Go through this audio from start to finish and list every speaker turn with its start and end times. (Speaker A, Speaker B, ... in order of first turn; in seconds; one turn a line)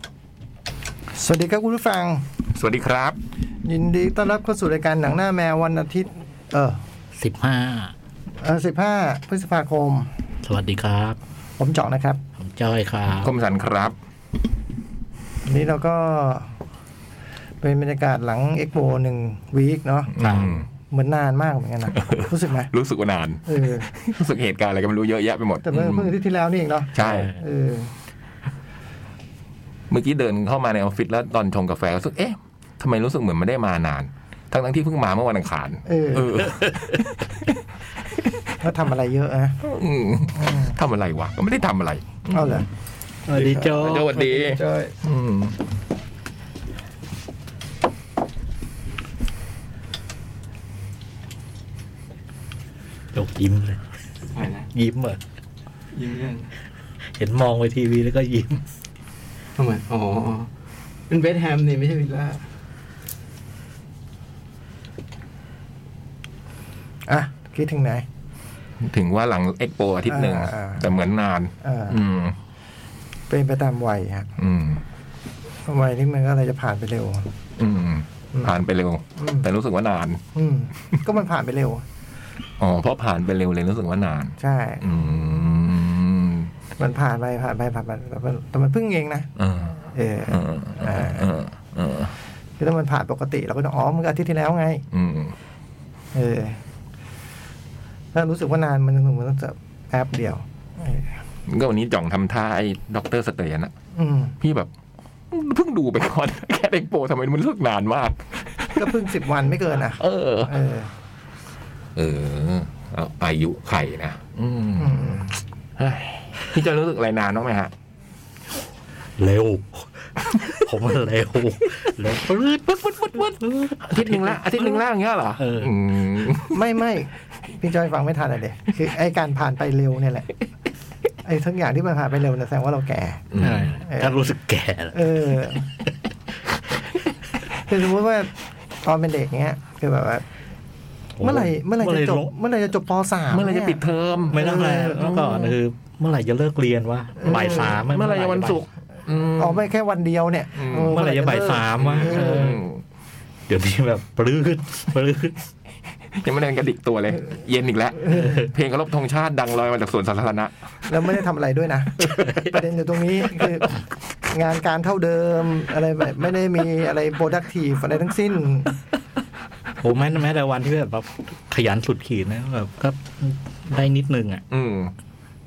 Speaker A: 1.1-2.2
Speaker B: 2.5-3.2
Speaker A: 3.6-6.8
Speaker C: 7.2-7.9
Speaker A: 8.4-10.1
Speaker C: 10.4-11.2
Speaker A: 11.6-12.2
Speaker C: 12.4-13.3
Speaker B: 13.2-13.9
Speaker A: 15.4-16.5
Speaker A: 17.6-22.7
Speaker B: 20.1-20.7
Speaker C: 20.2-20.5
Speaker B: 21.9-26.1
Speaker A: 23.5-23.9
Speaker A: 25.6-27.9
Speaker B: 26.9-27.3
Speaker C: 27.0-27.4
Speaker B: 29.9-37.5
Speaker A: 35.9-36.5
Speaker A: 38.6-39.6
Speaker B: 39.6-42.6
Speaker A: 40.4-40.8
Speaker A: 42.3-42.7
Speaker C: 43.3-44.3
Speaker D: 43.3-44.9
Speaker B: 43.8-45.6
Speaker C: 53.1-53.8
Speaker D: 54.4-54.7
Speaker C: 54.6-55.2
Speaker D: 55.9-56.5
Speaker C: 57.2-58.6
Speaker D: 59.6-60.5
Speaker D: 61.1-62.4
Speaker A: 67.1-68.0
Speaker B: 68.8-72.4
Speaker A: 70.1-70.9
Speaker A: 71.6-72.0
Speaker A: 73.3-74.3
Speaker B: 74.4-74.8
Speaker A: 75.7-77.3
Speaker B: 77.6-80.2
Speaker A: 79.2-79.5
Speaker A: 80.3-81.8
Speaker B: 82.6-86.5
Speaker A: 84.4-84.8
Speaker A: 86.8-89.3
Speaker B: 89.3-92.1
Speaker A: 89.9-91.3
Speaker A: 92.6-94.8
Speaker B: 94.9-95.3
Speaker A: 96.1-96.6
Speaker A: 98.1-101.1
Speaker B: 101.5-103.7
Speaker A: 103.9-104.3
Speaker B: 104.4-104.7
Speaker B: 105.3-109.0
Speaker A: 108.8-110.9
Speaker B: 109.9-110.6
Speaker B: 112.0-117.7
Speaker A: 114.8-115.3
Speaker C: 119.2-124.8
Speaker B: 122.7-126.6
Speaker C: 125.4-125.7
Speaker A: 126.5-130.3
Speaker A: 131.2-133.3
Speaker B: 133.3-133.7
Speaker C: 133.4-135.3
Speaker A: 133.9-134.2
Speaker A: 134.9-135.7
Speaker A: 137.7-138.3
Speaker A: 138.8-140.2
Speaker C: 141.2-142.3
Speaker A: 141.2-145.2
Speaker B: 143.3-145.5
Speaker C: 144.3-148.7
Speaker A: 147.2-147.7
Speaker B: 147.2-149.6
Speaker A: 149.3-152.6
Speaker B: 150.5-151.0
Speaker C: 150.9-152.7
Speaker B: 151.7-152.8
Speaker C: 153.5-155.4
Speaker B: 156.1-160.5
Speaker A: 158.1-158.4
Speaker A: 160.9-168.7
Speaker C: 162.2-162.5
Speaker C: 169.8-174.4
Speaker B: 174.5-174.9